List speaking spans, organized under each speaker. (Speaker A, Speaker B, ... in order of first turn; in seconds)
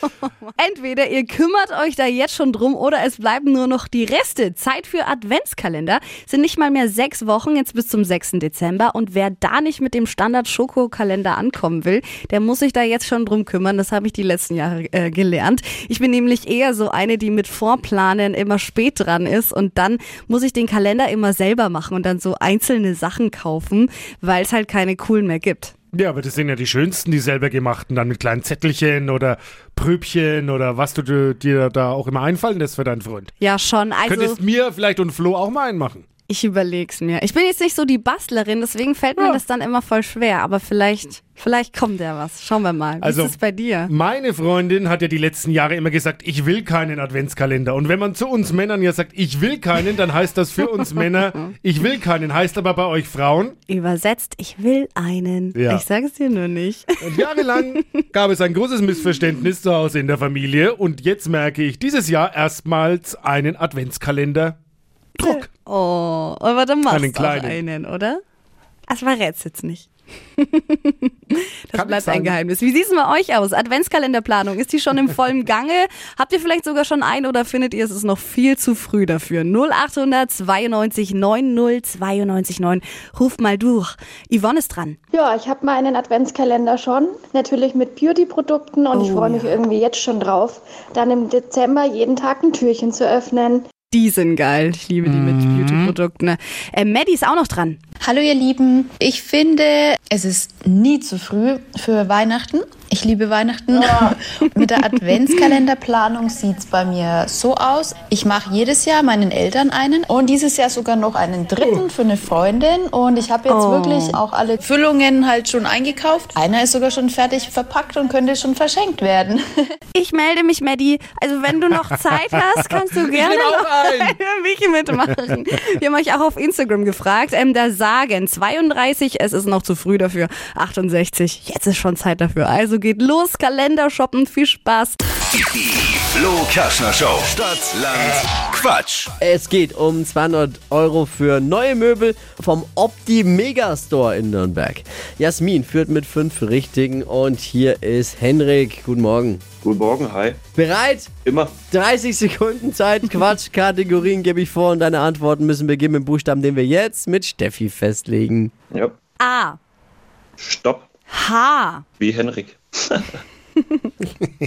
Speaker A: 0.5-25.7, 33.4-34.4, 36.3-43.9, 53.7-57.8, 65.2-68.2, 68.9-85.0, 88.9-89.6, 93.9-97.8, 113.5-114.1, 119.9-135.0, 159.2-159.6, 161.1-161.8
Speaker B: 25.9-33.3, 34.0-36.0, 43.0-53.5, 55.5-55.8, 57.0-64.6, 65.2-65.5, 66.9-67.6, 71.7-72.4, 95.0-95.9, 122.3-124.2
Speaker C: 85.1-93.7
Speaker D: 98.0-119.4
Speaker E: 135.4-139.1
Speaker F: 139.2-149.4, 150.6-158.5
Speaker G: 149.6-150.4, 151.2-151.6, 160.4-160.9, 162.0-163.2